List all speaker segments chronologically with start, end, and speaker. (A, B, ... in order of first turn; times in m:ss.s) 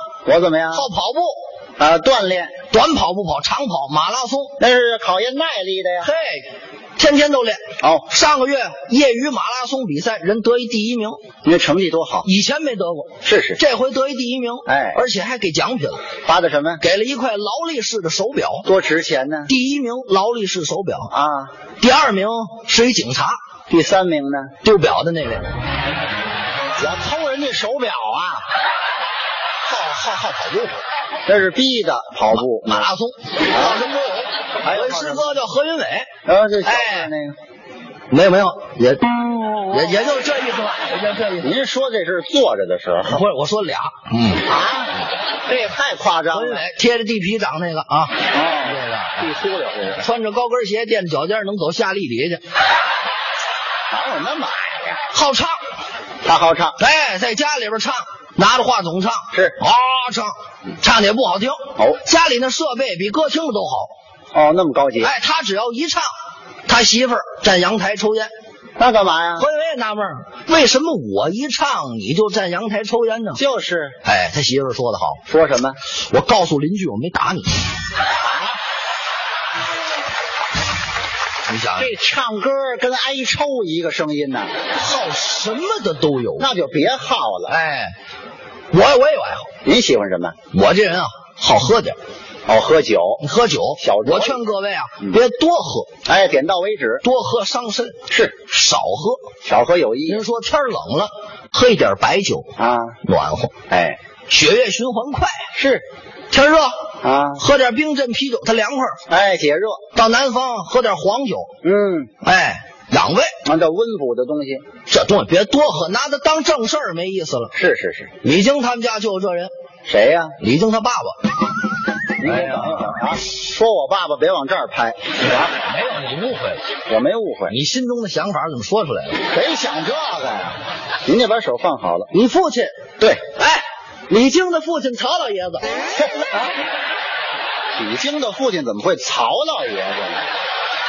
0:00.3-0:00.9 A
0:00.7-0:01.4 B
0:01.8-0:02.6 A
0:02.7-0:04.6 B
0:04.6-0:06.1 A
0:06.0-0:11.2 B
0:07.8-0:08.1 A
0:11.4-0:12.3 A
0:12.2-0:16.0 B
0:13.2-0:13.6 A
0:14.7-0:15.0 A
0:16.2-0:16.8 A
0:16.8-0:18.7 B
0:18.6-0:19.5 A
0:19.5-0:21.1 B
0:21.1-0:21.5 A
0:21.8-0:23.4 B
0:23.7-0:24.5 A
0:24.6-0:25.5 B
0:26.8-0:28.4 A
0:29.6-0:30.8 B
0:31.3-0:32.9 A
0:32.3-0:36.1 B
0:33.5-0:33.9 A
0:34.6-0:35.4 A
0:36.3-0:37.4 A
0:36.6-0:37.1 B
0:38.1-0:39.1 B
0:39.7-0:41.5 B
0:41.4-0:43.2 A
0:43.1-0:44.4 B
0:44.4-0:44.9 A
0:45.5-0:46.6 A
0:46.3-0:49.2 B
0:48.2-0:50.0 A
0:50.0-0:52.4 B
0:53.9-0:55.0 A
0:55.1-0:55.6 B
0:56.2-0:56.8 A
0:56.8-1:03.9 B
0:59.3-0:59.6 A
1:04.3-1:05.1 A
1:05.0-1:06.1 B
1:06.7-1:08.3 B
1:08.8-1:09.5 A
1:09.4-1:13.4 B
1:13.4-1:14.0 A
1:14.0-1:15.2 B
1:15.2-1:15.8 A
1:15.9-1:17.6 B
1:18.2-1:18.6 A
1:21.5-1:21.9 B
1:21.8-1:24.5 A
1:24.7-1:26.5 B
1:26.4-1:27.6 A
1:27.5-1:28.0 B
1:28.7-1:29.5 B
1:29.6-1:30.4 A
1:30.5-1:32.0 B
1:32.5-1:33.2 A
1:33.2-1:35.9 B
1:33.8-1:34.5 A
1:36.0-1:37.0 A
1:37.0-1:39.2 B
1:38.1-1:38.4 A
1:39.4-1:40.2 A
1:40.1-1:42.5 B
1:42.6-1:43.0 A
1:43.0-1:43.5 B
1:43.7-1:44.0 A
1:44.3-1:45.4 B
1:45.6-1:45.8 A
1:46.3-1:46.8 B
1:47.0-1:47.4 A
1:47.4-1:49.0 B
1:49.1-1:49.8 A
1:49.9-1:51.5 B
1:51.6-1:52.1 A
1:52.2-1:53.3 B
1:53.4-1:54.6 A
1:54.9-1:57.5 B
1:57.5-1:58.1 A
1:58.2-1:59.5 B
1:59.9-2:00.4 A
2:00.4-2:01.2 B
2:02.2-2:05.5 A
2:02.3-2:02.6 B
2:05.6-2:06.6 B
2:06.9-2:07.5 A
2:07.5-2:09.2 B
2:09.3-2:12.1 A
2:12.1-2:12.8 B
2:13.0-2:13.2 A
2:13.4-2:15.7 B
2:15.9-2:16.6 A
2:17.8-2:20.4 A